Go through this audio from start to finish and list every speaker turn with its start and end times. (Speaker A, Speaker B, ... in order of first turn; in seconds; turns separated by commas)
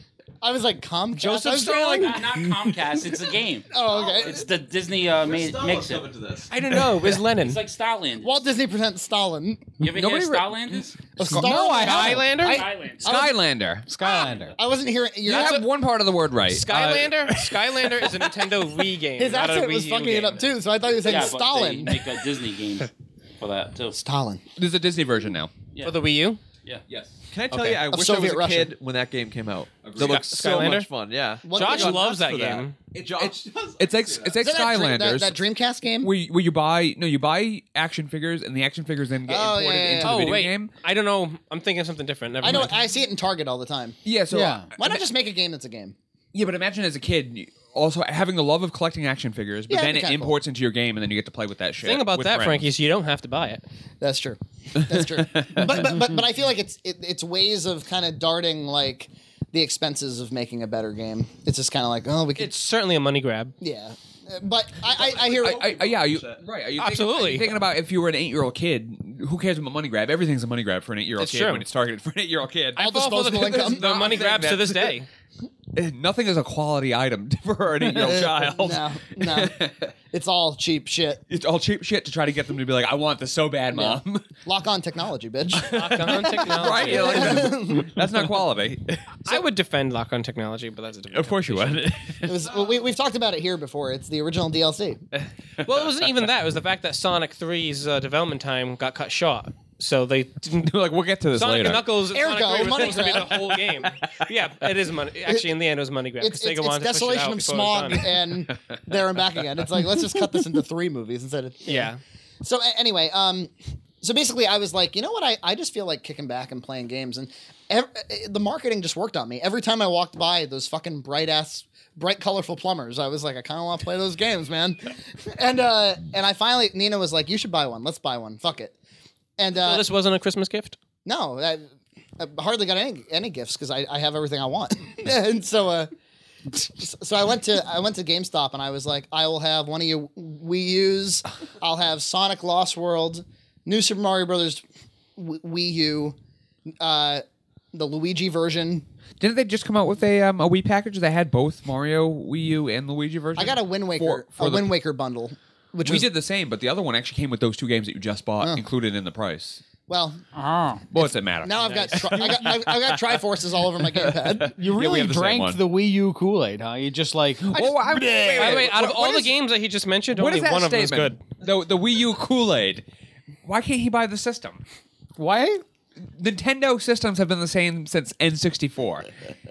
Speaker A: 0.4-3.1, Speaker B: 1.2-2.3, Speaker C: 1.4-6.2, Speaker A: 3.7-4.4, Speaker D: 3.8-4.6, Speaker D: 5.1-6.5, Speaker B: 6.5-7.6, Speaker C: 7.4-8.4, Speaker A: 8.2-9.8, Speaker C: 9.8-11.0, Speaker E: 9.9-10.8, Speaker A: 11.2-13.3, Speaker F: 11.2-12.3, Speaker B: 11.7-12.7, Speaker C: 12.4-13.2, Speaker E: 13.0-13.9, Speaker F: 13.9-14.6, Speaker A: 14.5-15.6, Speaker E: 15.2-18.3, Speaker B: 15.2-15.7, Speaker B: 16.4-20.4, Speaker A: 19.2-22.1, Speaker C: 21.0-24.0, Speaker A: 23.9-24.4, Speaker E: 24.6-25.5, Speaker C: 25.7-26.0, Speaker B: 25.8-26.4, Speaker E: 26.9-27.8, Speaker D: 27.3-34.4, Speaker A: 27.9-28.7, Speaker E: 29.8-30.7, Speaker B: 30.0-30.9, Speaker A: 31.4-32.2, Speaker B: 31.5-32.8, Speaker E: 32.9-35.4, Speaker A: 34.4-36.1, Speaker E: 36.0-40.7, Speaker A: 39.3-40.4, Speaker B: 40.0-42.8, Speaker A: 42.4-44.0, Speaker E: 44.0-45.0, Speaker F: 44.3-44.7, Speaker A: 44.8-46.0, Speaker E: 46.3-52.6, Speaker A: 49.7-50.4, Speaker B: 51.8-53.6, Speaker A: 54.0-62.5, Speaker E: 54.9-55.7, Speaker B: 62.4-63.5, Speaker A: 63.6-65.7, Speaker D: 64.8-66.5, Speaker E: 65.4-74.9, Speaker B: 66.8-67.5, Speaker B: 71.2-71.7, Speaker A: 72.8-73.8, Speaker B: 72.8-75.1, Speaker E: 75.7-79.9, Speaker A: 77.8-79.5, Speaker A: 80.1-81.2, Speaker E: 81.3-84.2, Speaker A: 83.7-88.1, Speaker E: 85.5-89.4, Speaker B: 85.7-87.5, Speaker B: 89.2-91.9, Speaker E: 91.1-92.5, Speaker A: 92.2-95.0, Speaker B: 95.6-100.7, Speaker E: 95.6-95.9, Speaker E: 100.5-101.9, Speaker B: 101.3-108.1, Speaker A: 102.1-103.5, Speaker E: 102.7-104.3, Speaker A: 105.2-105.5, Speaker A: 106.2-111.9, Speaker B: 111.6-112.0, Speaker A: 112.4-128.8, Speaker A: 129.4-129.8, Speaker B: 129.5-130.8, Speaker A: 131.0-131.7, Speaker A: 132.2-135.9, Speaker A: 136.5-144.6, Speaker A: 145.2-146.2, Speaker A: 146.8-148.8, Speaker E: 149.2-154.7, Speaker A: 153.3-156.1, Speaker E: 155.8-159.6, Speaker A: 159.9-160.2, Speaker F: 160.3-160.8, Speaker E: 160.9-163.2, Speaker A: 160.9-164.6, Speaker B: 161.6-161.9, Speaker E: 163.8-165.6, Speaker F: 164.6-167.6, Speaker E: 167.4-169.3, Speaker A: 167.5-168.7, Speaker B: 168.3-171.2, Speaker E: 170.1-172.8, Speaker E: 173.4-174.6, Speaker F: 175.2-175.6, Speaker E: 176.1-179.1